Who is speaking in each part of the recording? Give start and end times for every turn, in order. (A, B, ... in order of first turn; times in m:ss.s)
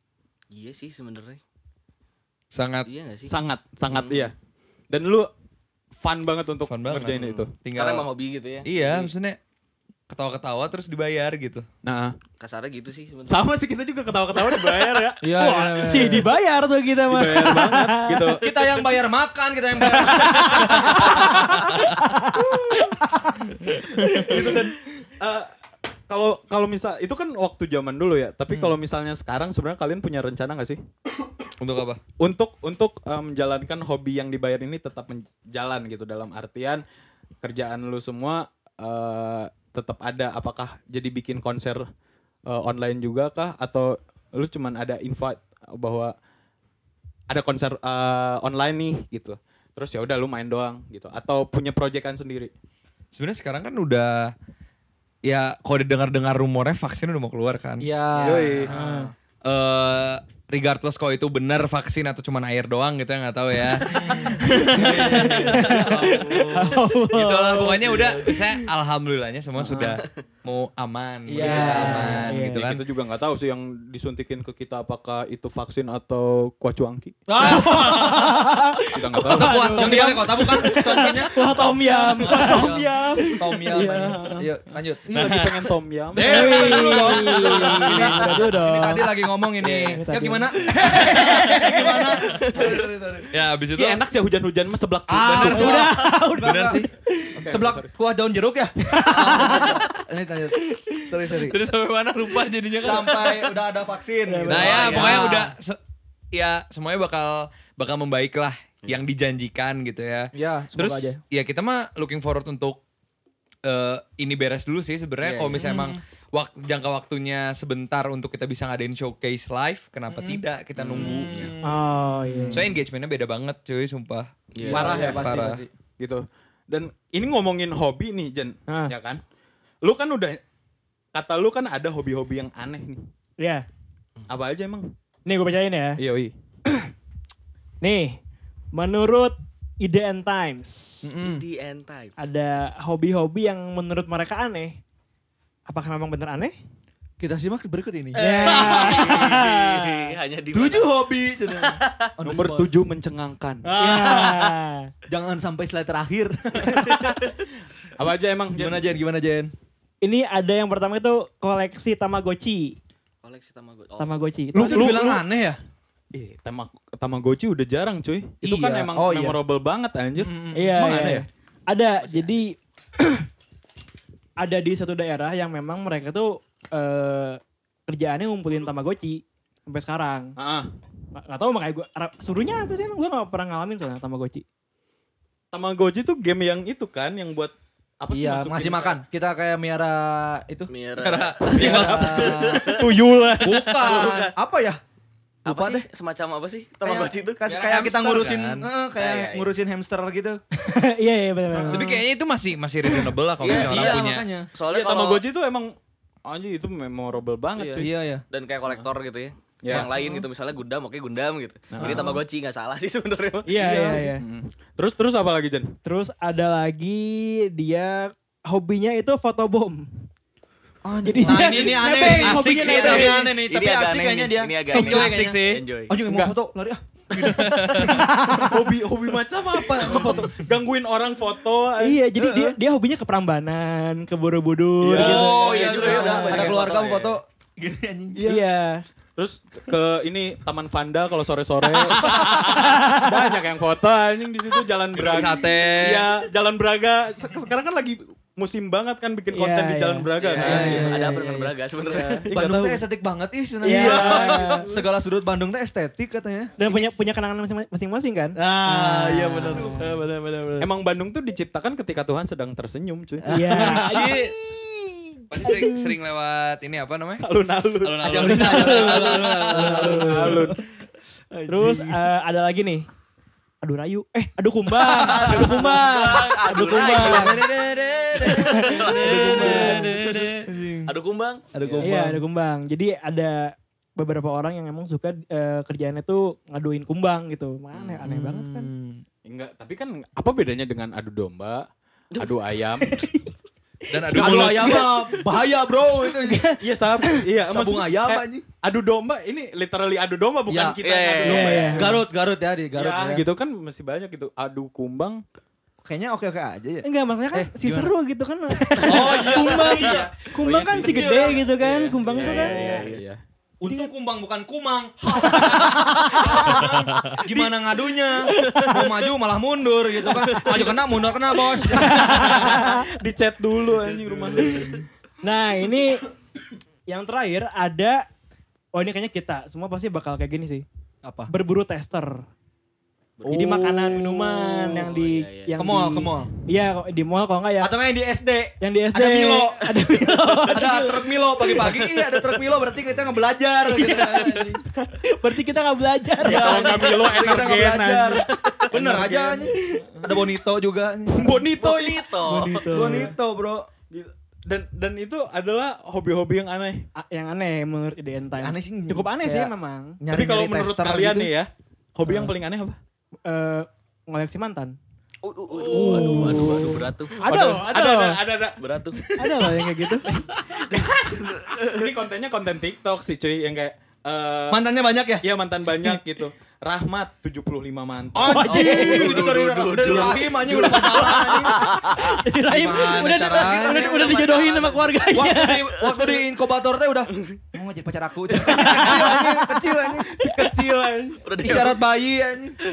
0:00.5-0:01.4 A
0:02.5-0:02.9 B
0:02.8-0:03.3 A
0:03.3-0:04.3 C
0:03.9-0:04.3 A
0:04.9-0:05.3 C
0:06.0-0:07.5 C
0:06.7-0:08.1 B
0:07.1-0:09.1 A
0:08.6-0:09.4 B
0:10.1-0:11.6 B
0:11.8-0:12.2 C
0:12.4-0:13.4 A
0:13.3-0:15.2 C
0:15.2-0:16.3 D
0:15.3-0:18.4 E
0:17.1-0:18.5 C
0:18.4-0:21.2 D
0:19.9-0:24.5 E
0:24.1-0:25.5 C
0:26.1-0:30.8 C
0:31.6-0:32.0 B
0:32.2-0:36.8 C
0:37.4-0:41.8 C
0:42.5-0:46.1 C
0:47.3-0:52.5 C
0:53.1-0:54.3 B
0:55.2-0:57.9 B
0:57.8-0:59.1 D
0:58.1-0:58.7 A
0:58.2-0:58.7 C
0:58.7-0:59.1 E
0:59.4-1:06.2 B
1:03.9-1:06.4 D
1:04.3-1:05.9 E
1:05.8-1:06.6 C
1:06.5-1:08.0 E
1:07.1-1:12.8 B
1:09.6-1:10.0 C
1:11.3-1:12.2 D
1:11.4-1:12.6 E
1:11.4-1:17.2 C
1:17.3-1:18.4 D
1:17.5-1:24.4 E
1:17.5-1:18.2 B
1:18.9-1:19.7 C
1:19.2-1:20.4 B
1:19.7-1:25.2 D
1:25.0-1:28.4 C
1:25.1-1:25.6 B
1:26.1-1:33.3 D
1:26.2-1:29.1 E
1:29.6-1:32.2 E
1:33.3-1:34.0 B
1:33.8-1:35.9 C
1:35.1-1:36.8 D
1:35.4-1:37.3 E
1:35.4-1:35.7 B
1:36.4-1:36.9 B
1:37.3-1:37.9 C
1:37.4-1:41.6 D
1:38.9-1:39.8 E
1:41.4-1:43.5 B
1:42.8-1:45.5 D
1:44.3-1:45.2 E
1:44.5-1:45.8 B
1:44.9-1:45.3 C
1:46.3-1:52.8 B
1:50.3-1:51.2 D
1:53.6-2:01.5 B
1:55.2-1:55.7 A
2:00.1-2:00.4 D
2:00.8-2:01.5 A
2:01.0-2:01.8 D
2:01.6-2:02.6 E
2:02.4-2:02.7 C
2:02.5-2:05.6 B
2:04.5-2:05.1 A
2:04.6-2:05.7 D
2:04.7-2:05.4 C
2:06.0-2:09.2 C
2:09.8-2:10.4 C
2:11.1-2:13.1 C
2:13.4-2:13.6 E
2:14.3-2:14.9 C
2:15.2-2:16.0 E
2:16.0-2:16.3 C
2:17.8-2:18.2 E
2:18.7-2:21.1 E
2:21.1-2:21.4 C
2:21.2-2:22.1 A
2:22.2-2:24.8 E
2:25.7-2:26.6 E
2:27.2-2:29.3 D
2:28.1-2:31.0 A
2:28.2-2:30.0 E
2:30.5-2:32.7 D
2:31.5-2:32.1 A
2:32.2-2:33.6 C
2:33.6-2:37.2 D
2:33.8-2:34.9 E
2:38.0-2:38.9 C
2:38.5-2:39.5 D
2:40.0-2:42.8 E
2:43.2-2:44.1 A
2:44.0-2:45.0 E
2:44.5-2:45.6 D
2:44.5-2:45.2 C
2:46.1-2:51.2 C
2:48.4-2:49.4 D
2:50.2-2:50.8 D
2:50.5-2:53.2 E
2:52.0-2:52.3 A
2:54.4-3:00.3 E
3:00.4-3:00.7 C
3:01.2-3:04.4 E
3:05.5-3:09.0 C
3:08.1-3:10.7 D
3:10.7-3:14.3 A
3:11.0-3:12.3 B
3:11.6-3:14.0 C
3:11.6-3:12.6 D
3:13.4-3:14.8 D
3:15.4-3:15.8 D
3:15.4-3:18.4 A
3:16.8-3:20.4 D
3:17.5-3:18.6 B
3:19.0-3:19.5 A
3:20.6-3:21.9 E
3:21.5-3:22.0 D
3:21.7-3:24.3 B
3:23.4-3:25.2 A
3:23.4-3:24.5 D
3:24.7-3:25.7 C
3:26.2-3:27.9 C
3:27.6-3:33.5 A
3:27.8-3:28.2 D
3:29.6-3:29.9 C
3:29.7-3:30.2 E
3:31.7-3:32.2 C
3:31.8-3:32.1 D
3:33.5-3:34.2 E
3:33.6-3:35.7 C
3:35.8-3:39.9 E
3:40.8-3:46.8 D
3:41.0-3:43.2 E
3:42.2-3:43.1 B
3:42.6-3:45.9 A
3:42.8-3:43.1 C
3:44.7-3:45.6 B
3:46.1-3:46.3 C
3:47.2-3:48.0 B
3:47.2-3:47.6 A
3:47.8-3:48.6 E
3:47.8-3:52.0 C
3:49.8-3:50.2 A
3:51.8-3:56.5 E
3:52.2-3:52.5 D
3:54.8-3:56.8 C
3:54.8-3:58.4 D
3:55.0-3:57.2 A
3:58.2-3:58.8 E
3:59.2-4:10.9 C
4:01.8-4:02.7 D
4:02.0-4:03.3 E
4:05.0-4:06.1 B
4:09.3-4:11.4 E
4:10.2-4:12.3 A
4:10.4-4:11.3 D
4:11.9-4:12.8 C
4:12.3-4:16.8 D
4:13.6-4:14.6 E
4:13.7-4:14.8 C
4:13.8-4:14.6 A
4:16.6-4:19.9 E
4:18.4-4:20.7 D
4:20.6-4:24.2 C
4:23.3-4:24.2 D
4:23.3-4:24.1 E
4:23.8-4:24.3 B
4:25.3-4:27.3 B
4:25.4-4:25.7 C
4:27.2-4:28.9 C
4:27.8-4:29.4 B
4:28.0-4:30.6 D
4:28.2-4:30.4 E
4:29.5-4:30.6 C
4:31.3-4:32.0 D
4:31.5-4:32.8 E
4:33.6-4:37.4 E
4:34.8-4:40.9 D
4:35.0-4:41.5 A
4:38.3-4:39.9 E
4:39.4-4:39.9 C
4:41.5-4:42.2 D
4:41.8-4:48.7 E
4:47.7-4:48.0 A
4:48.0-4:49.0 D
4:49.2-4:51.6 C
4:52.1-4:52.6 A
4:52.2-4:53.0 C
4:52.9-4:53.2 D
4:53.9-4:54.7 B
4:53.9-4:58.4 D
4:54.1-4:55.1 C
4:56.6-5:02.0 C
5:00.5-5:00.8 D
5:00.8-5:01.8 A
5:01.2-5:01.9 E
5:01.7-5:03.3 D
5:02.7-5:05.2 C
5:05.8-5:07.9 D
5:06.8-5:12.9 E
5:08.8-5:10.0 D
5:08.9-5:10.0 A
5:08.9-5:13.2 C
5:12.2-5:13.0 A
5:13.6-5:22.6 D
5:15.4-5:16.6 E
5:16.2-5:16.6 C
5:18.4-5:18.7 A
5:20.1-5:20.6 A
5:21.7-5:22.9 E
5:22.0-5:24.8 C
5:24.1-5:24.7 D
5:25.2-5:26.0 E
5:26.9-5:28.0 E
5:28.7-5:30.6 E
5:31.0-5:31.3 D
5:31.3-5:32.2 E
5:33.2-5:33.6 A
5:33.2-5:34.6 D
5:33.3-5:37.7 E
5:34.7-5:35.6 A
5:35.6-5:36.3 D
5:37.6-5:39.6 D
5:38.6-5:41.1 E
5:39.6-5:40.5 A
5:40.5-5:44.6 D
5:41.6-5:42.4 A
5:43.7-5:46.7 E
5:43.9-5:44.5 A
5:46.2-5:51.5 D
5:46.2-5:50.1 C
5:46.6-5:47.0 A
5:48.1-5:48.7 A
5:51.1-5:53.0 C
5:51.6-5:52.7 A
5:52.3-5:53.1 E
5:52.6-5:53.6 D
5:53.9-5:56.8 C
5:57.0-6:00.0 E
5:58.4-6:01.3 D
6:00.1-6:02.8 C
6:02.1-6:02.3 E
6:03.2-6:04.8 E
6:05.2-6:07.2 A
6:05.5-6:06.7 C
6:05.7-6:08.2 E
6:05.8-6:06.6 D
6:07.2-6:09.1 C
6:08.6-6:09.0 A
6:09.2-6:10.0 E
6:10.0-6:14.6 C
6:11.1-6:11.8 A
6:14.5-6:15.2 D
6:15.2-6:18.6 C
6:18.1-6:21.8 D
6:18.2-6:19.2 E
6:18.5-6:22.1 A
6:20.7-6:25.8 E
6:22.4-6:24.3 D
6:23.5-6:25.0 A
6:25.1-6:30.2 D
6:25.8-6:26.2 A
6:28.4-6:31.1 E
6:30.3-6:31.5 C
6:31.2-6:31.8 A
6:31.4-6:32.6 D